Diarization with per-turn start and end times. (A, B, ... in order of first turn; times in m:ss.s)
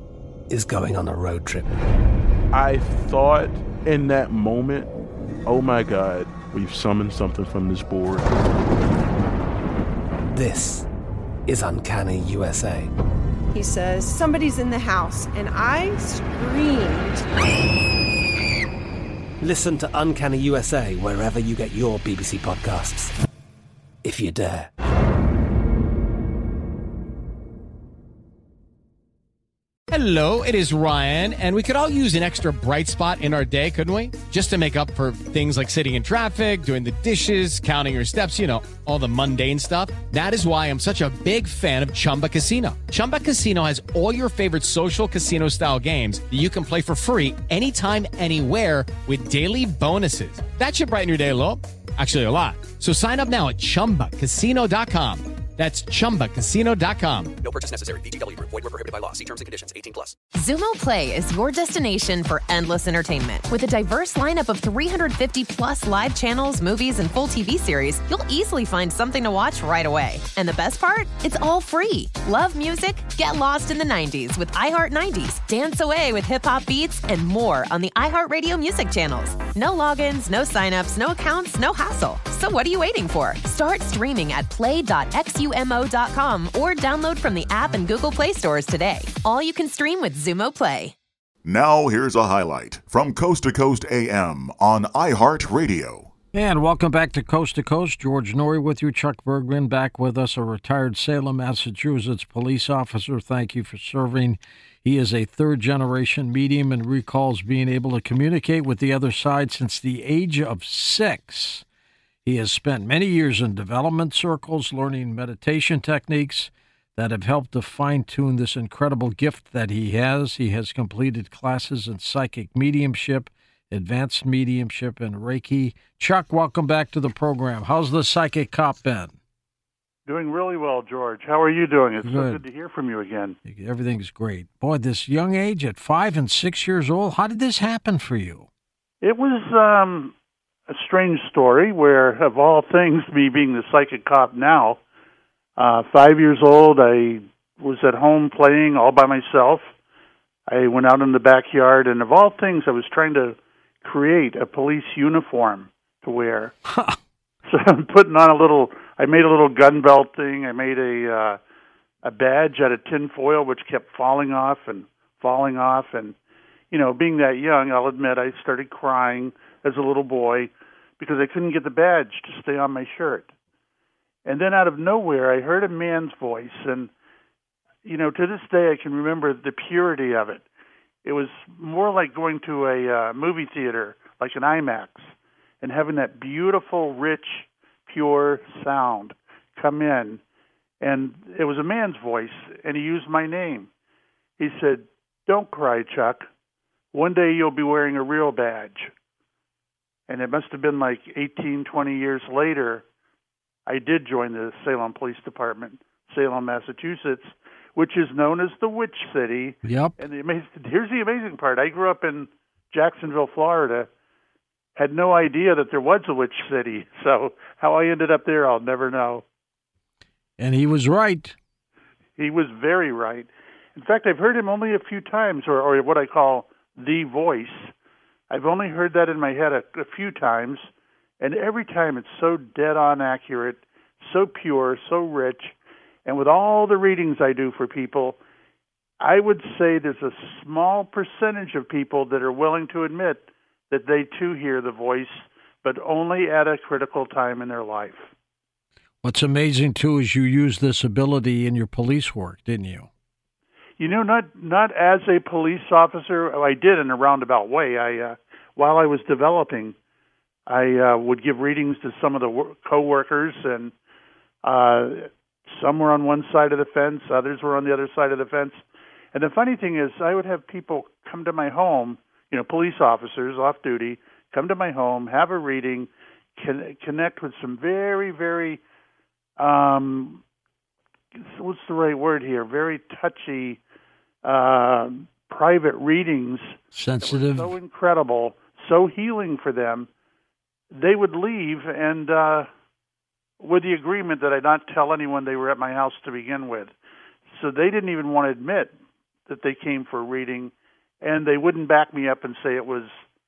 0:00.5-0:01.8 A
0:02.5-0:04.9 B
0:05.4-0:08.3 B
0:10.3-0:10.8 A
0:11.5-0:12.9 A
0:13.5-0:17.2 C
0:19.4-0:23.1 A
0:24.0-0:24.7 A
0:29.9-0:57.3 D
0:57.4-1:00.2 E
1:00.3-1:30.9 F
1:31.4-1:36.1 G
1:36.3-1:51.6 H
1:52.2-2:09.1 H
2:10.1-2:13.4 I
2:12.0-2:12.4 H
2:13.4-2:18.5 H
2:19.0-2:20.1 I
2:20.7-2:24.8 I
2:25.6-2:29.7 I
2:30.5-2:36.5 I
2:36.7-2:37.0 H
2:37.5-2:41.4 I
2:42.0-2:46.1 I
2:46.7-2:53.3 I
2:54.2-2:56.9 I
2:57.8-3:00.4 I
3:01.0-3:10.2 I
3:10.8-3:13.7 I
3:14.4-3:16.3 I
3:16.9-3:18.9 I
3:20.1-3:22.8 I
3:23.6-3:33.9 I
3:29.6-3:29.9 H
3:34.8-3:39.2 I
3:40.4-3:41.4 H
3:42.2-3:47.7 I
3:48.3-3:50.7 I
3:51.2-3:55.5 I
3:56.0-3:58.2 I
3:59.0-4:08.1 I
4:09.0-4:12.9 H
4:13.8-4:19.7 I
4:20.5-4:23.7 I
4:24.4-4:38.6 I
4:39.4-4:40.2 I
4:41.2-4:43.6 I
4:44.2-4:49.9 I
4:46.7-4:47.5 H
4:50.7-4:52.5 I
4:53.4-4:56.7 I
4:57.3-4:58.7 I
4:59.3-5:03.0 I